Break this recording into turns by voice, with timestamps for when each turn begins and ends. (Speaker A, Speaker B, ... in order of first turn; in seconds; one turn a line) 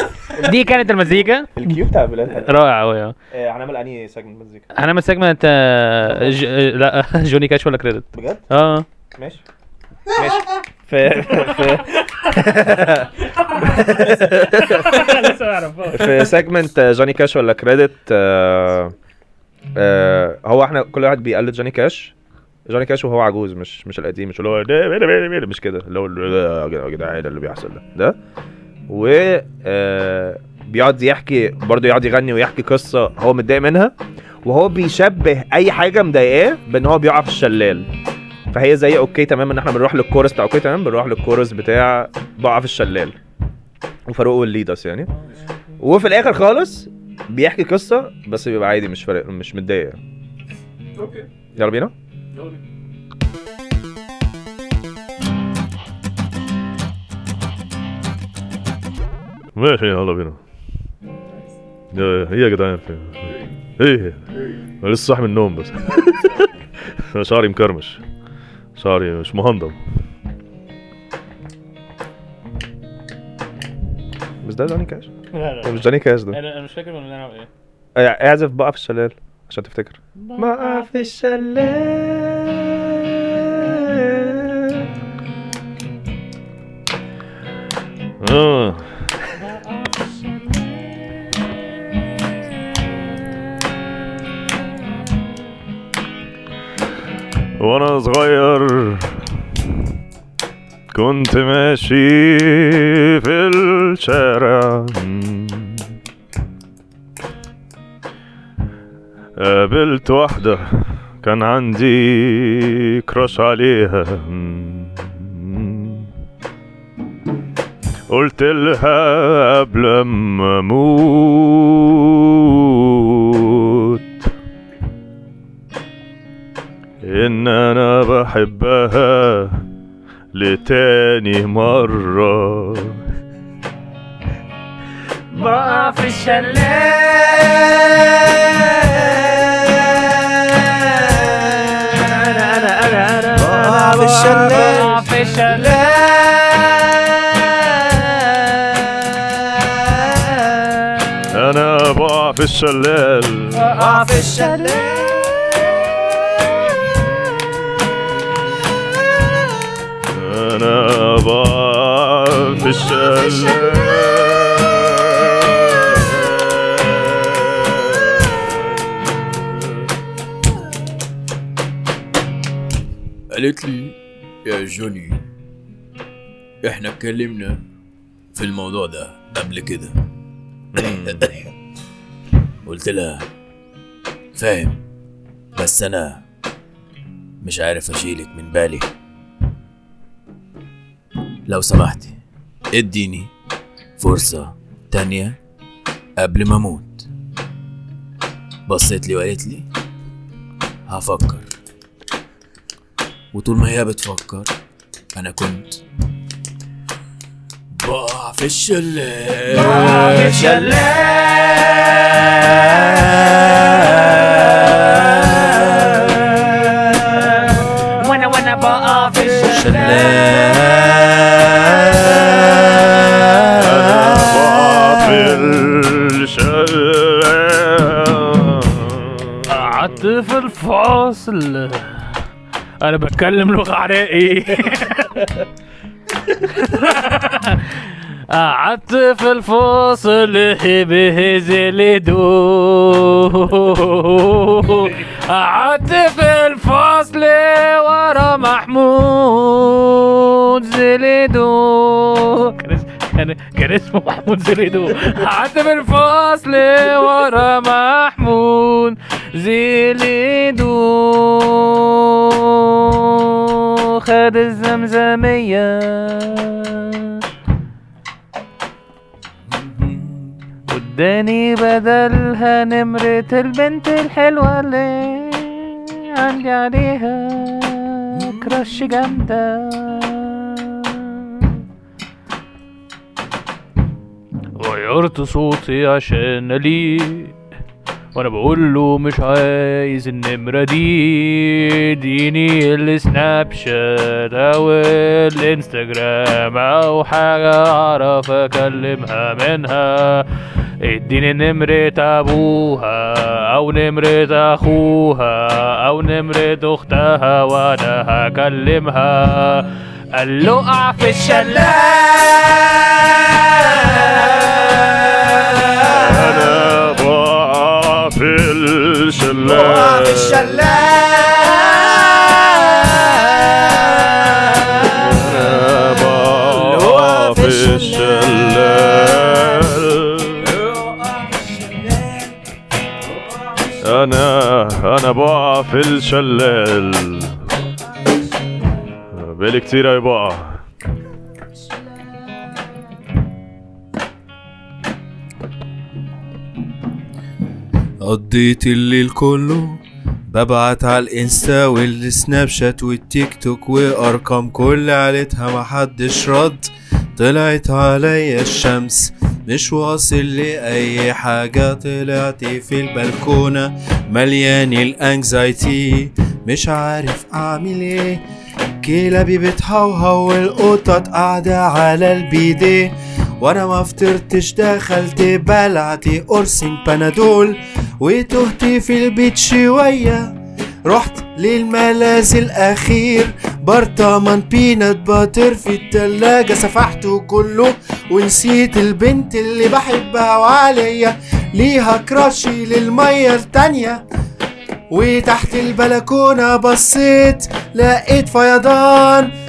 Speaker A: 0.4-1.6
Speaker B: 0.4-2.6
Speaker A: 2.3-3.1
Speaker B: 3.3-4.7
Speaker A: 4.8-8.8
Speaker B: 6.1-6.4
Speaker B: 8.1-8.4
Speaker B: 9.2-9.4
Speaker B: 10.2-15.2
Speaker A: 13.6-16.3
Speaker B: 15.9-18.9
Speaker B: 19.8-22.1
Speaker B: 22.7-28.2
Speaker B: 28.9-37.9
Speaker B: 38.5-43.2
Speaker B: 44.1-45.1
Speaker B: 45.8-50.0
Speaker C: 51.0-51.3
Speaker B: 51.5-51.9
Speaker C: 52.3-52.6
Speaker D: 59.5-60.4
Speaker D: 61.9-64.2
Speaker D: 64.8-66.3
Speaker D: 67.1-68.0
Speaker D: 68.8-69.8
Speaker B: 74.4-76.4
Speaker A: 75.3-77.5
Speaker B: 78.0-84.9
Speaker A: 80.2-81.1
Speaker D: 88.2-88.8
Speaker A: 89.4-90.8
Speaker D: 97.6-99.1
Speaker D: 100.9-105.8
Speaker D: 109.4-116.1
Speaker D: 118.1-124.3
Speaker D: 127.0-129.6
Speaker D: 130.3-133.0
Speaker B: 135.3-137.6
Speaker A: 135.4-136.9
Speaker B: 141.6-144.9
Speaker C: 143.3-144.9
Speaker E: 144.4-144.7
Speaker A: 144.7-145.8
Speaker C: 145.8-146.7
Speaker D: 151.3-153.6
Speaker A: 153.6-154.6
Speaker C: 153.8-154.8
Speaker E: 154.2-154.5
Speaker E: 155.1-155.4
Speaker D: 160.1-169.5
Speaker C: 163.0-163.3
Speaker C: 173.3-175.2
Speaker C: 176.6-177.6
Speaker C: 178.3-180.0
Speaker B: 180.7-181.3
Speaker C: 180.8-181.5
Speaker C: 182.6-183.3
Speaker C: 184.4-184.8
Speaker C: 185.6-186.2
Speaker C: 187.4-188.9
Speaker C: 191.5-192.2
Speaker C: 192.7-193.3
Speaker C: 194.0-195.4
Speaker C: 196.2-197.1
Speaker C: 198.7-199.7
Speaker C: 200.9-201.5
Speaker C: 203.3-204.5
Speaker C: 205.1-205.8
Speaker C: 207.7-211.2
Speaker F: 209.6-210.7
Speaker C: 215.0-216.4
Speaker F: 218.0-220.2
Speaker C: 219.5-221.3
Speaker E: 219.8-220.4
Speaker D: 223.5-229.2
Speaker A: 229.5-232.1
Speaker D: 229.8-230.1
Speaker A: 232.8-235.3
Speaker A: 236.5-266.9
Speaker C: 269.5-270.4
Speaker A: 270.7-280.4
Speaker C: 278.1-278.7
Speaker A: 284.6-287.4
Speaker A: 288.1-300.2
Speaker A: 300.8-311.8
Speaker D: 315.9-320.5
Speaker C: 319.4-325.4
Speaker D: 325.0-330.5
Speaker C: 326.3-329.5
Speaker C: 330.4-332.3
Speaker C: 333.1-334.0
Speaker D: 333.8-337.3
Speaker D: 339.1-340.6
Speaker E: 348.0-368.2
Speaker E: 368.8-380.4
Speaker E: 380.9-394.1
Speaker E: 394.9-399.3